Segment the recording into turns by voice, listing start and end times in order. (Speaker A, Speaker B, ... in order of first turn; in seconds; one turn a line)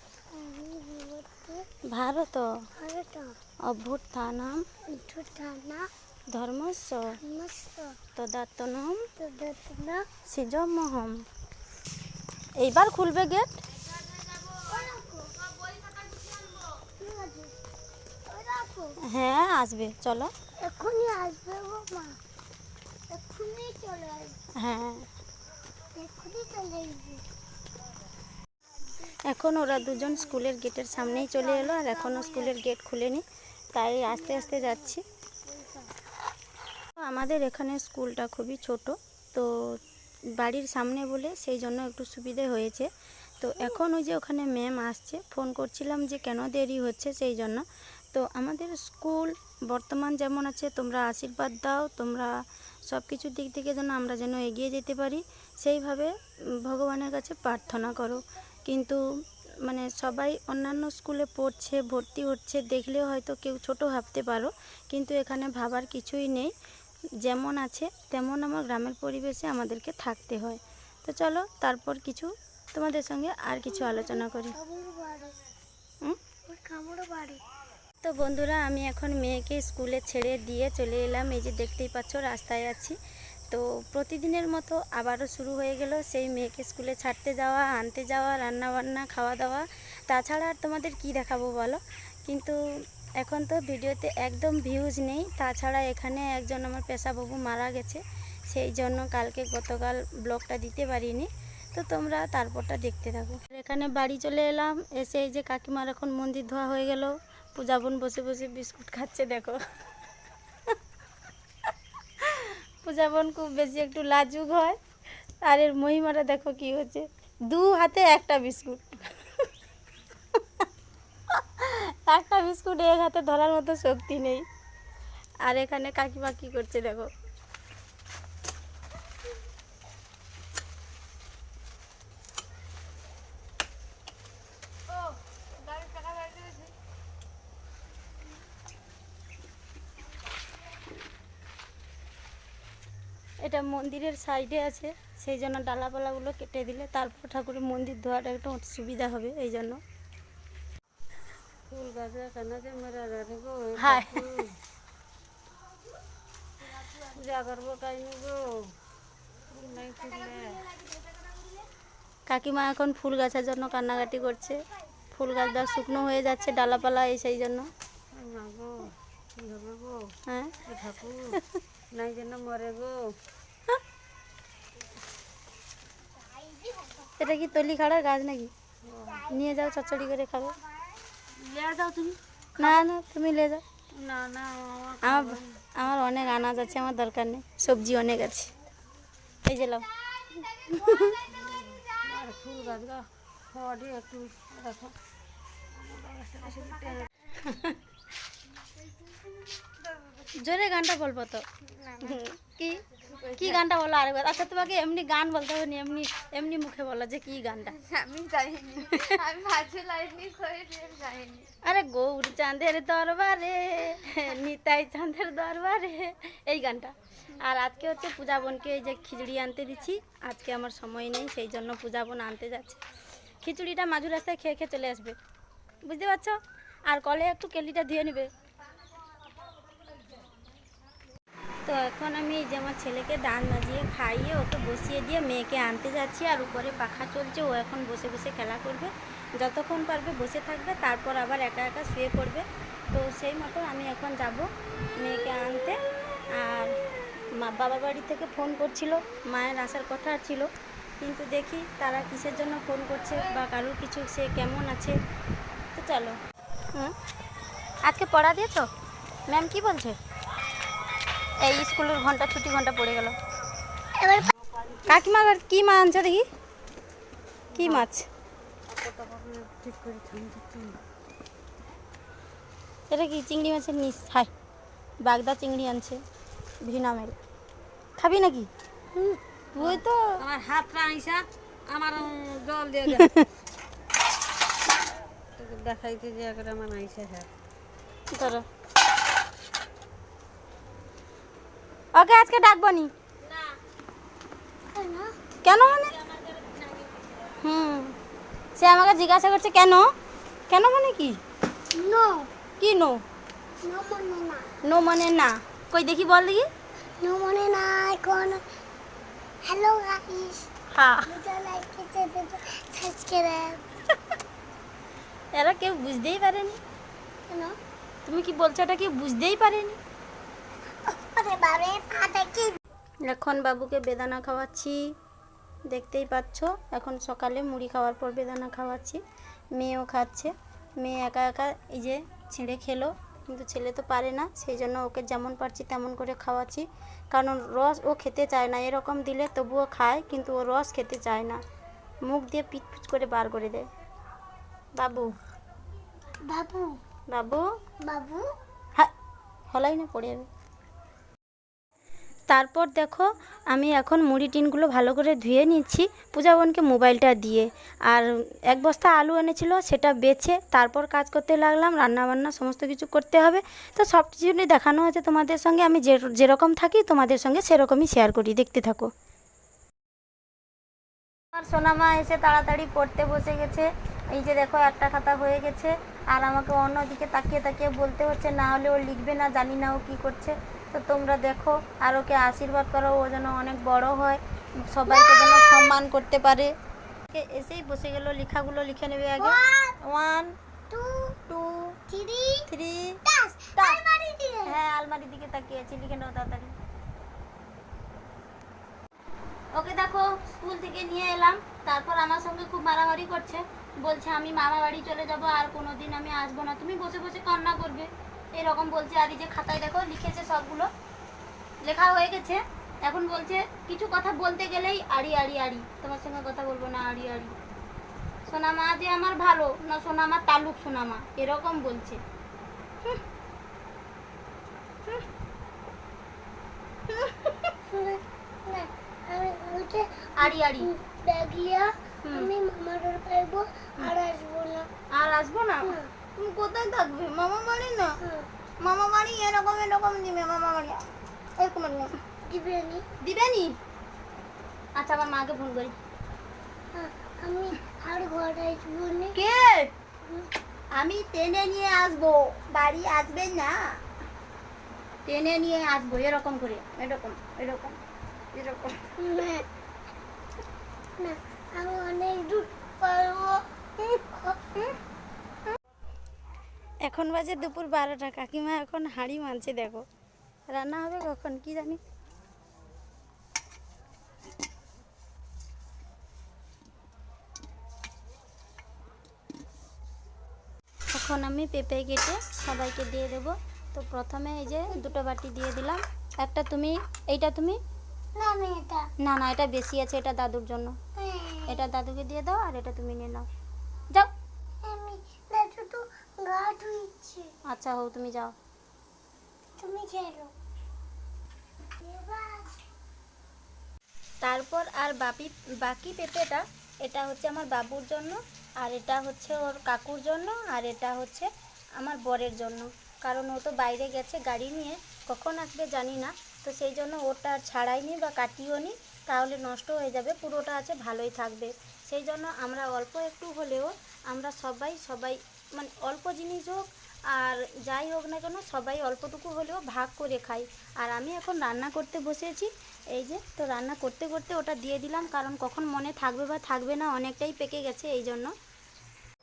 Speaker A: 0.3-1.6
Speaker B: 1.9-2.5
Speaker A: 2.8-3.3
Speaker B: 3.6-4.6
Speaker A: 4.9-5.9
Speaker B: 6.3-7.0
Speaker A: 7.2-8.0
Speaker B: 8.1-9.0
Speaker A: 9.2-10.1
Speaker B: 10.3-11.2
Speaker B: 12.6-13.5
Speaker A: 14.4-17.5
Speaker A: 18.3-19.0
Speaker B: 19.0-20.3
Speaker A: 20.6-22.1
Speaker A: 23.1-24.4
Speaker B: 24.6-25.1
Speaker A: 25.9-27.2
Speaker B: 29.1-35.0
Speaker A: 29.9-30.4
Speaker A: 30.9-32.6
Speaker A: 34.2-34.8
Speaker B: 37.0-39.8
Speaker B: 40.4-42.9
Speaker B: 43.4-52.3
Speaker B: 52.9-56.1
Speaker B: 56.6-59.0
Speaker B: 59.6-66.5
Speaker B: 67.2-74.5
Speaker A: 73.7-75.4
Speaker A: 76.5-77.4
Speaker B: 78.0-82.9
Speaker B: 83.5-92.6
Speaker B: 93.2-109.6
Speaker B: 112.2-114.8
Speaker B: 115.4-119.5
Speaker B: 120.3-120.6
Speaker B: 121.3-124.4
Speaker B: 125.4-127.1
Speaker B: 143.4-149.8
Speaker C: 151.7-154.6
Speaker B: 153.8-154.2
Speaker C: 156.9-158.7
Speaker C: 159.5-160.7
Speaker B: 162.3-167.7
Speaker C: 168.1-171.4
Speaker B: 170.3-170.6
Speaker B: 171.3-171.6
Speaker C: 171.9-173.1
Speaker A: 176.2-177.2
Speaker B: 177.2-178.5
Speaker C: 178.8-179.3
Speaker B: 179.3-180.6
Speaker C: 181.3-182.8
Speaker B: 182.6-183.6
Speaker C: 183.9-185.6
Speaker B: 185.0-188.5
Speaker B: 189.4-189.9
Speaker B: 190.5-191.2
Speaker C: 191.3-194.9
Speaker C: 195.7-197.1
Speaker B: 197.3-197.8
Speaker B: 200.3-201.4
Speaker B: 202.0-207.8
Speaker C: 203.2-203.6
Speaker C: 207.9-211.4
Speaker B: 208.8-209.2
Speaker B: 211.6-222.8
Speaker B: 223.4-225.2
Speaker B: 225.8-226.4
Speaker B: 226.9-228.3
Speaker B: 231.6-244.5
Speaker B: 245.0-245.8
Speaker B: 246.3-246.7
Speaker B: 247.3-250.5
Speaker B: 251.0-255.0
Speaker B: 255.7-256.2
Speaker B: 257.8-258.7
Speaker B: 259.3-260.0
Speaker B: 261.4-263.1
Speaker A: 263.9-264.3
Speaker C: 264.4-264.9
Speaker B: 264.9-266.2
Speaker C: 267.5-267.9
Speaker B: 267.5-268.1
Speaker C: 268.7-270.8
Speaker B: 272.9-274.3
Speaker B: 275.0-276.0
Speaker B: 276.6-277.1
Speaker B: 278.0-278.5
Speaker C: 279.6-283.2
Speaker B: 279.6-280.2
Speaker B: 282.9-283.2
Speaker C: 285.4-287.3
Speaker B: 288.1-288.4
Speaker B: 291.9-292.9
Speaker A: 294.7-295.1
Speaker B: 295.4-295.9
Speaker C: 296.4-297.1
Speaker B: 297.3-297.9
Speaker B: 298.6-299.9
Speaker B: 300.5-301.2
Speaker A: 301.7-302.3
Speaker B: 302.6-303.0
Speaker A: 303.6-304.5
Speaker B: 304.6-306.5
Speaker A: 307.0-308.4
Speaker A: 309.4-310.5
Speaker B: 310.7-311.1
Speaker A: 311.1-313.6
Speaker B: 315.3-316.6
Speaker A: 317.3-317.6
Speaker B: 318.1-319.8
Speaker A: 320.9-322.6
Speaker B: 323.0-324.9
Speaker B: 325.7-329.0
Speaker B: 329.5-341.4
Speaker B: 342.0-343.7
Speaker B: 344.8-345.1
Speaker A: 346.3-346.8
Speaker B: 347.1-347.4
Speaker A: 347.8-348.3
Speaker B: 349.5-350.3
Speaker B: 352.3-368.9
Speaker B: 371.3-386.5
Speaker A: 384.9-385.7
Speaker B: 387.1-390.3
Speaker A: 389.2-389.8
Speaker A: 390.7-391.2
Speaker B: 391.3-391.7
Speaker A: 391.9-392.5
Speaker B: 392.5-393.0
Speaker A: 393.0-394.6
Speaker B: 393.6-393.8
Speaker B: 394.4-396.5
Speaker B: 399.5-410.7
Speaker B: 411.6-417.4
Speaker B: 418.2-422.0
Speaker B: 426.9-427.5
Speaker A: 427.7-434.7
Speaker B: 430.2-430.7
Speaker B: 432.0-432.3
Speaker B: 434.9-438.0
Speaker A: 435.6-435.9
Speaker A: 438.0-438.3
Speaker B: 438.6-440.9
Speaker B: 441.4-441.9
Speaker A: 442.3-442.8
Speaker B: 443.0-443.5
Speaker B: 444.8-445.8
Speaker A: 446.7-449.1
Speaker B: 449.1-449.7
Speaker B: 450.7-453.7
Speaker B: 455.1-457.8
Speaker B: 458.3-458.8
Speaker A: 459.0-459.5
Speaker A: 461.0-464.5
Speaker B: 466.8-469.8
Speaker B: 470.5-471.8
Speaker B: 480.9-487.6
Speaker A: 488.2-488.9
Speaker B: 489.0-490.7
Speaker A: 491.0-491.6
Speaker B: 491.5-493.3
Speaker A: 494.6-497.3
Speaker B: 497.5-498.3
Speaker A: 499.6-500.3
Speaker A: 501.8-502.6
Speaker B: 504.2-511.3
Speaker B: 511.8-538.3